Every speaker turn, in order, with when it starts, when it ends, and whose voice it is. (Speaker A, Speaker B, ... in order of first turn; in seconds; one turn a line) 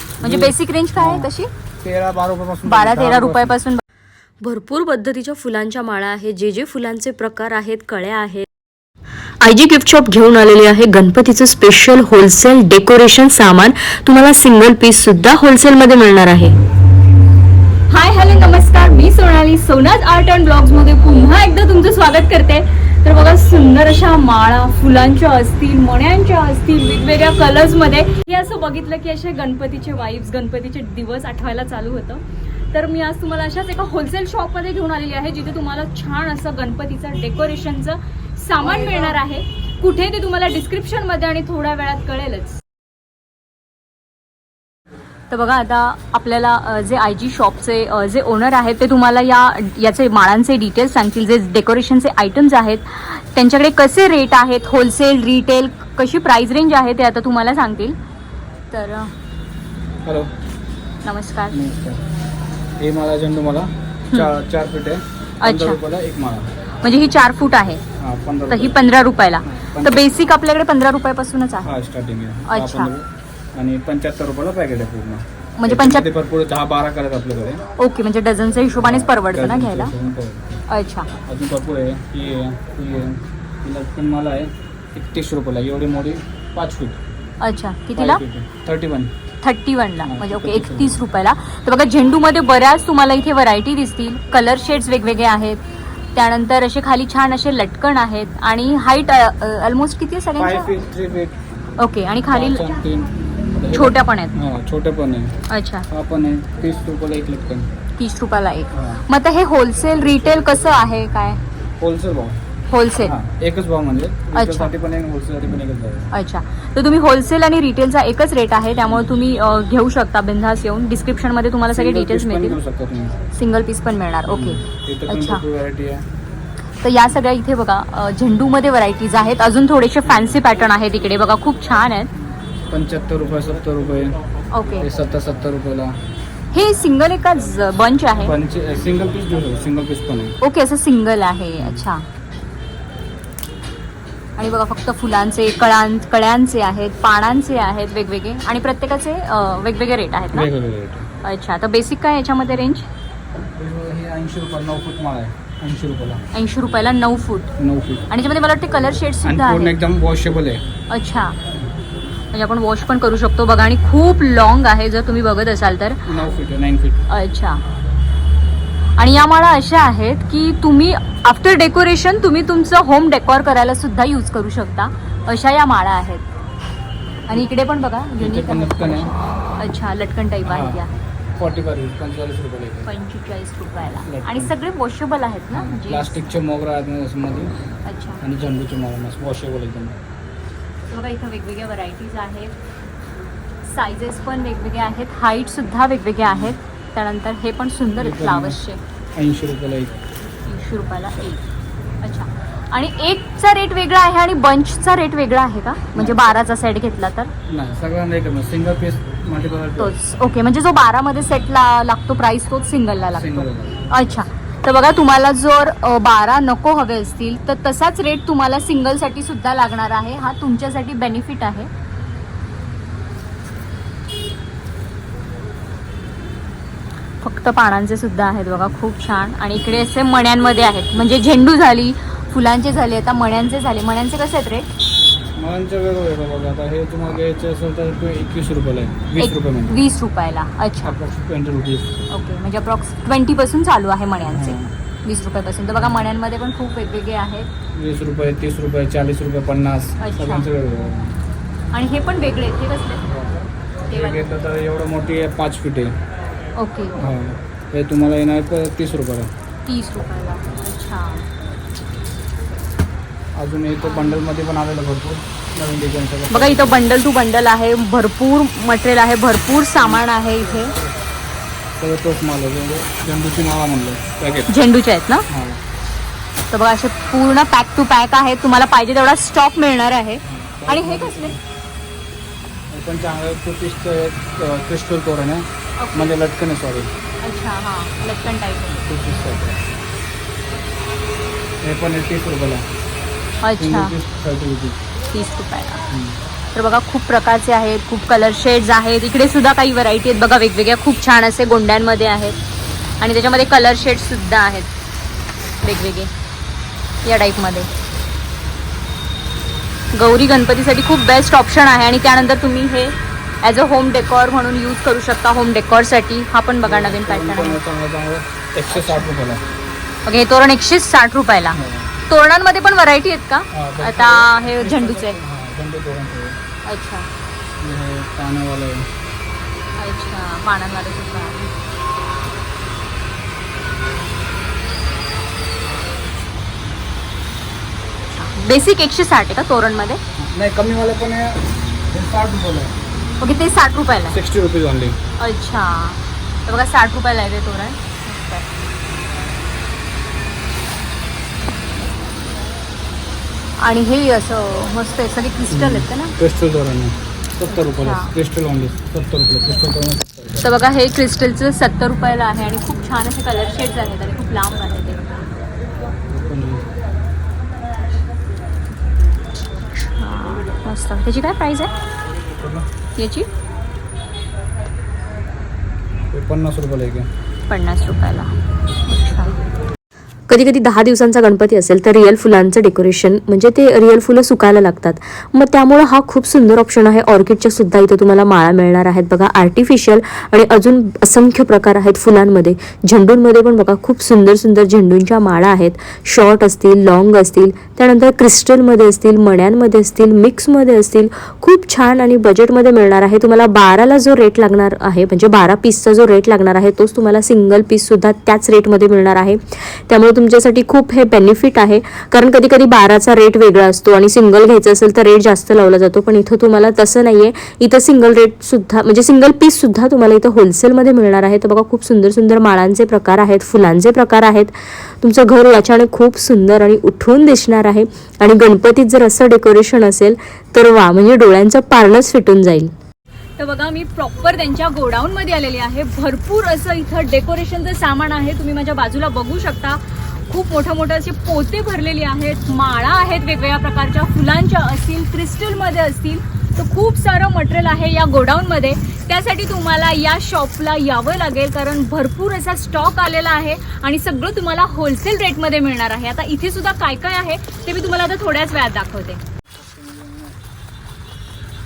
Speaker A: 0.2-1.5
Speaker B: 0.2-1.3
Speaker B: 1.8-3.6
Speaker A: 2.6-3.8
Speaker C: 4.4-8.4
Speaker C: 9.4-16.6
Speaker A: 17.9-42.6
Speaker A: 45.3-58.0
Speaker A: 58.7-59.1
Speaker B: 60.0-60.3
Speaker A: 61.0-61.6
Speaker B: 61.5-62.0
Speaker B: 62.8-66.5
Speaker A: 65.4-65.8
Speaker A: 66.8-67.8
Speaker B: 68.0-68.8
Speaker A: 68.5-71.7
Speaker B: 69.4-70.1
Speaker B: 71.6-77.6
Speaker A: 72.5-72.9
Speaker A: 75.6-76.1
Speaker A: 77.8-79.9
Speaker B: 78.8-80.6
Speaker A: 80.7-81.1
Speaker B: 81.3-87.0
Speaker A: 87.4-88.2
Speaker B: 88.0-89.1
Speaker A: 89.4-95.6
Speaker B: 90.0-91.0
Speaker A: 96.1-100.7
Speaker B: 100.4-101.4
Speaker A: 101.8-102.8
Speaker B: 102.3-105.3
Speaker A: 103.7-104.4
Speaker A: 105.5-105.8
Speaker B: 105.9-107.7
Speaker A: 108.0-111.4
Speaker B: 108.7-109.0
Speaker B: 109.9-110.9
Speaker B: 111.8-112.4
Speaker A: 112.7-113.2
Speaker B: 113.0-116.1
Speaker A: 114.3-114.7
Speaker A: 116.1-122.6
Speaker B: 121.7-123.2
Speaker A: 123.3-125.4
Speaker B: 124.3-126.0
Speaker A: 126.8-132.1
Speaker B: 130.1-130.4
Speaker B: 132.7-134.2
Speaker A: 134.5-134.8
Speaker B: 134.8-135.9
Speaker A: 136.5-138.3
Speaker B: 138.2-140.3
Speaker A: 140.4-142.0
Speaker B: 141.6-141.9
Speaker A: 144.4-150.5
Speaker B: 150.3-151.1
Speaker A: 151.2-152.9
Speaker B: 153.6-156.2
Speaker A: 156.3-157.5
Speaker B: 157.6-158.1
Speaker A: 158.1-159.8
Speaker B: 159.2-160.6
Speaker A: 160.9-161.4
Speaker A: 162.3-166.0
Speaker B: 166.1-167.0
Speaker A: 167.1-167.6
Speaker A: 169.0-176.3
Speaker A: 177.3-180.9
Speaker B: 178.2-179.1
Speaker B: 180.4-180.8
Speaker B: 181.4-182.9
Speaker A: 182.8-186.2
Speaker B: 184.1-184.5
Speaker B: 185.5-187.5
Speaker A: 187.8-188.2
Speaker B: 188.2-189.9
Speaker A: 190.9-192.5
Speaker A: 193.6-198.8
Speaker B: 196.2-196.6
Speaker B: 198.0-198.6
Speaker B: 199.2-199.9
Speaker A: 200.4-201.4
Speaker A: 202.0-207.3
Speaker B: 205.9-206.3
Speaker B: 207.5-209.9
Speaker A: 209.8-221.7
Speaker B: 213.1-213.9
Speaker A: 227.2-234.7
Speaker B: 235.3-239.8
Speaker A: 239.2-241.0
Speaker B: 240.8-241.9
Speaker A: 242.1-247.5
Speaker B: 244.3-244.7
Speaker B: 245.8-246.1
Speaker B: 247.8-251.2
Speaker A: 250.0-250.5
Speaker A: 251.7-253.0
Speaker B: 253.1-255.9
Speaker A: 253.9-254.2
Speaker A: 256.6-257.0
Speaker B: 257.0-259.3
Speaker A: 259.6-261.2
Speaker B: 263.4-266.9
Speaker A: 263.8-264.2
Speaker A: 266.3-270.8
Speaker B: 269.8-271.0
Speaker B: 271.8-274.5
Speaker A: 274.5-275.2
Speaker B: 275.3-275.6
Speaker A: 276.5-281.4
Speaker B: 280.2-281.4
Speaker B: 282.7-286.9
Speaker A: 285.8-286.1
Speaker A: 287.2-288.8
Speaker B: 288.7-289.6
Speaker B: 291.6-292.6
Speaker A: 293.4-293.9
Speaker B: 293.6-294.8
Speaker A: 295.1-295.9
Speaker B: 295.9-296.2
Speaker A: 296.5-302.4
Speaker A: 303.0-304.7
Speaker A: 305.6-306.1
Speaker A: 307.0-307.7
Speaker A: 309.9-317.6
Speaker B: 316.6-319.4
Speaker A: 318.7-319.1
Speaker A: 320.1-325.2
Speaker B: 321.5-321.9
Speaker B: 323.5-326.4
Speaker A: 326.6-327.1
Speaker B: 327.6-328.9
Speaker A: 329.8-331.5
Speaker A: 338.1-340.0
Speaker B: 340.2-342.7
Speaker A: 343.2-344.2
Speaker B: 344.1-345.0
Speaker A: 345.2-348.4
Speaker A: 353.6-356.1
Speaker B: 355.5-360.5
Speaker A: 357.5-358.1
Speaker A: 360.4-365.1
Speaker B: 366.1-366.6
Speaker A: 369.7-371.7
Speaker B: 372.4-372.6
Speaker A: 372.9-373.3
Speaker B: 376.1-377.1
Speaker A: 377.5-378.3
Speaker A: 378.9-379.4
Speaker C: 380.3-432.7
Speaker A: 433.4-459.2
Speaker B: 459.5-460.4